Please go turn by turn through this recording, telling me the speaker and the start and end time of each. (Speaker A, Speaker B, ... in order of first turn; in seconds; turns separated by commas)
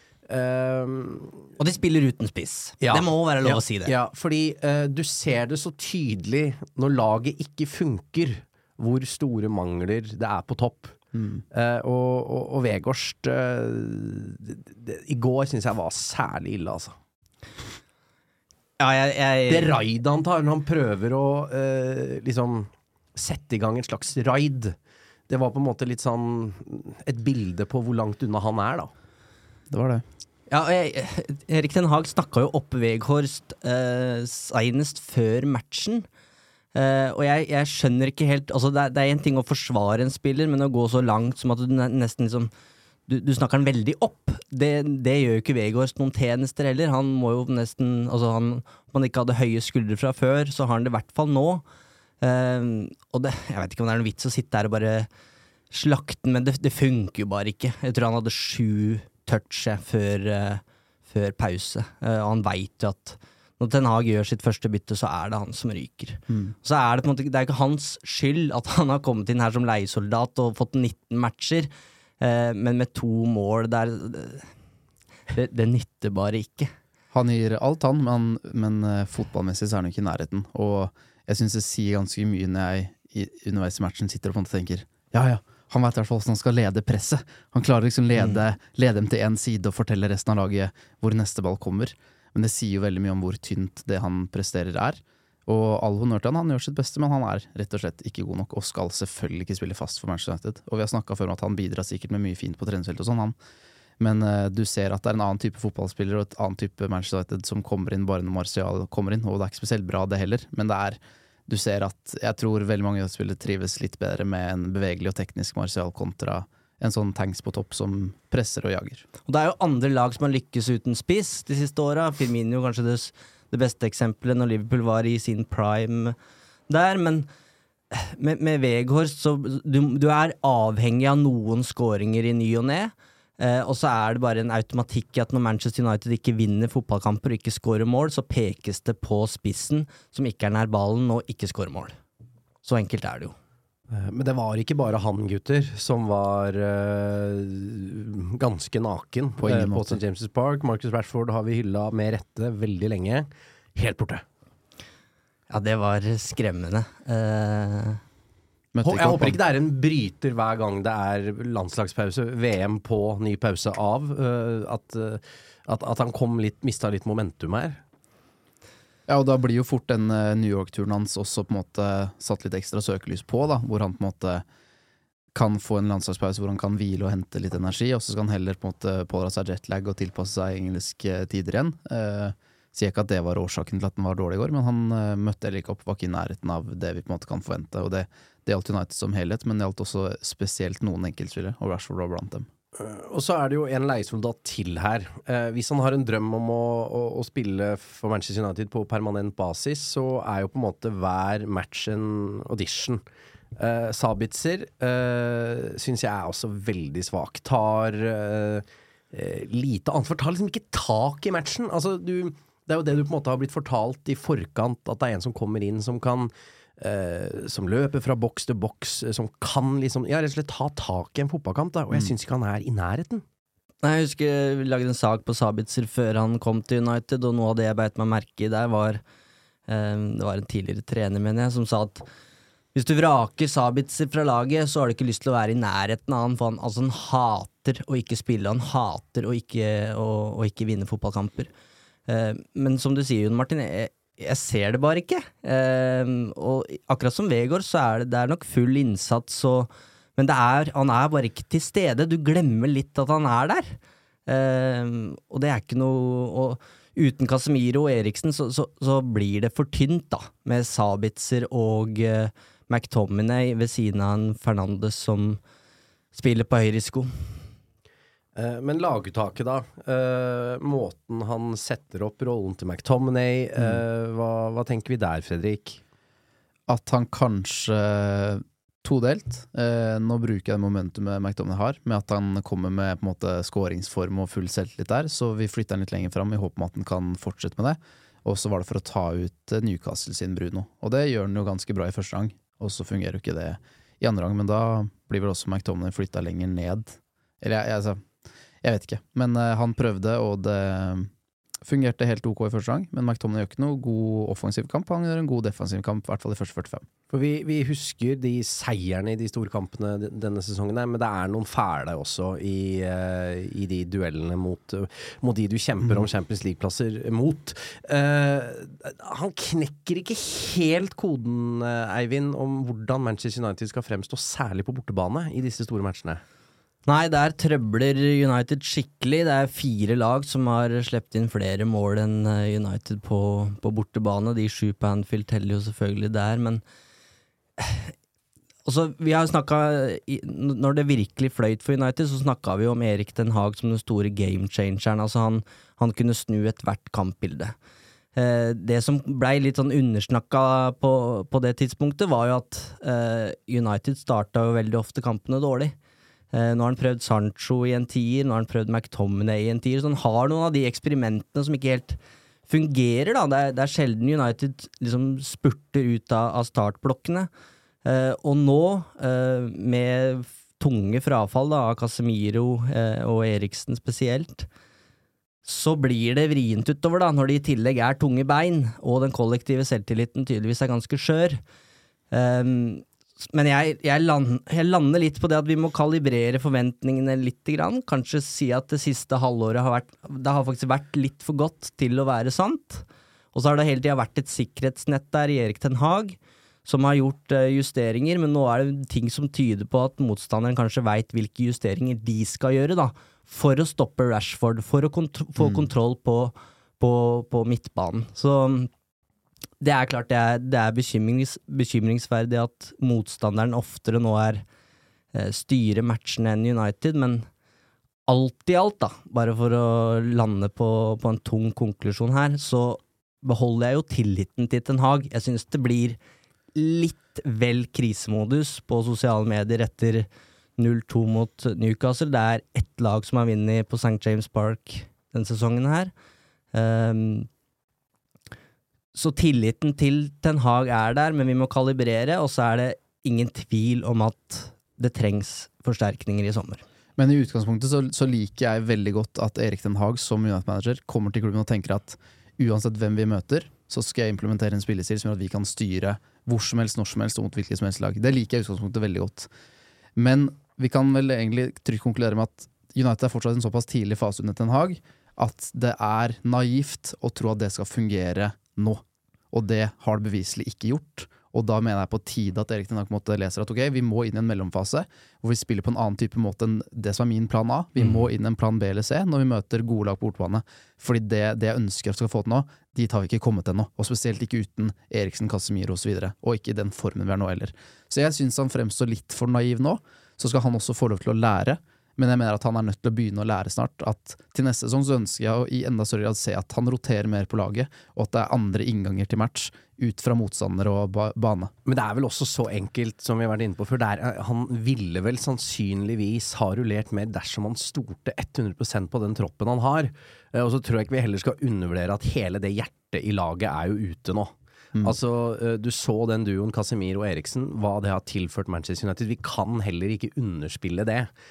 Speaker A: 0.3-1.5, Speaker B: 1.6-3.9, Speaker A: 2.8-11.0, Speaker C: 11.1-11.4, Speaker A: 11.5-16.9, Speaker B: 18.8-19.7, Speaker A: 19.5-24.8, Speaker A: 25.3-28.9, Speaker C: 29.7-30.1, Speaker B: 30.5-36.0, Speaker B: 36.8-42.5, Speaker B: 43.1-51.6, Speaker B: 52.2-55.1, Speaker B: 55.7-74.5, Speaker C: 66.3-66.5, Speaker B: 75.3-76.7, Speaker C: 77.1-103.4, Speaker C: 104.0-119.1, Speaker B: 119.3-126.2, Speaker B: 126.7-127.3, Speaker B: 127.9-141.9, Speaker B: 142.6-143.3, Speaker A: 143.9-154.2, Speaker C: 149.4-150.0, Speaker B: 155.5-158.0, Speaker C: 158.7-159.4, Speaker A: 158.8-167.8, Speaker C: 169.1-174.4, Speaker C: 175.3-192.5, Speaker A: 192.8-203.0, Speaker A: 203.6-223.2, Speaker B: 223.8-229.0, Speaker B: 229.7-232.1, Speaker B: 232.8-241.5, Speaker B: 242.1-265.4, Speaker B: 266.1-267.1, Speaker A: 268.4-275.8, Speaker C: 276.7-298.1, Speaker C: 298.6-301.1, Speaker C: 301.6-306.9, Speaker A: 307.1-326.2, Speaker B: 326.9-336.6, Speaker B: 337.6-337.9, Speaker B: 338.6-347.5, Speaker B: 348.2-355.8, Speaker B: 356.3-367.3, Speaker B: 367.9-374.5, Speaker B: 375.5-381.4, Speaker B: 382.1-408.7, Speaker C: 405.4-405.7, Speaker B: 409.6-414.4, Speaker B: 415.1-417.3, Speaker B: 418.1-426.0, Speaker B: 426.6-430.1, Speaker B: 430.6-435.9, Speaker B: 436.5-437.3, Speaker B: 438.9-446.6, Speaker C: 447.0-459.3, Speaker C: 460.0-501.5, Speaker A: 501.6-521.1